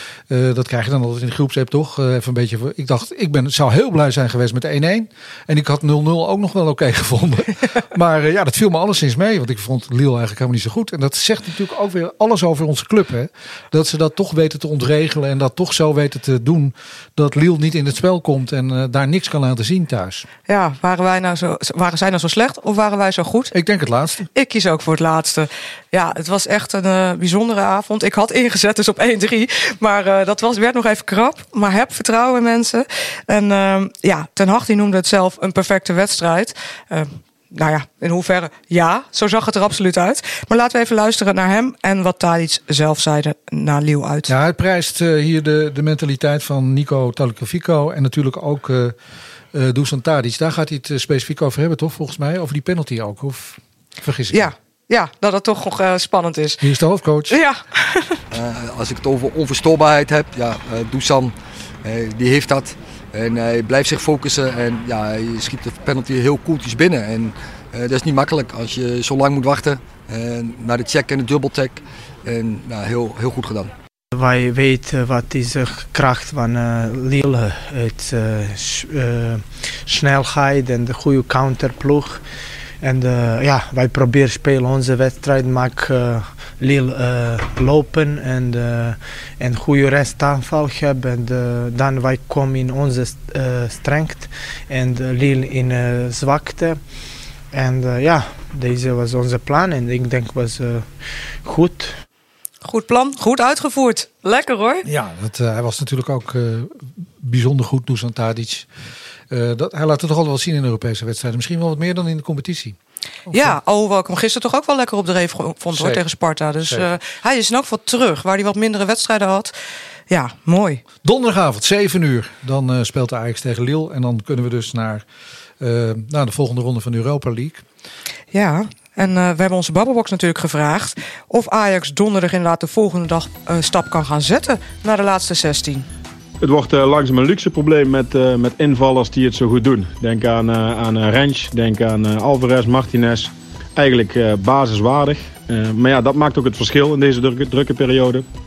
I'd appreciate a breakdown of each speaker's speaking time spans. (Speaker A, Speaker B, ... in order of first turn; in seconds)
Speaker A: 0.3-20.2, 23.5-24.3, 44.3-49.0, 49.5-54.5, 56.6-57.4, 104.8-108.7, 109.3-113.6, 115.7-116.0, 121.0-125.0, 125.6-127.6
Speaker B: 20.5-23.5, 24.3-44.3, 54.3-56.7, 57.3-58.2, 102.7-104.9, 113.3-119.5, 120.1-120.8, 128.3-135.9
Speaker C: 58.3-73.7
Speaker D: 74.1-102.0
Speaker E: 136.4-148.3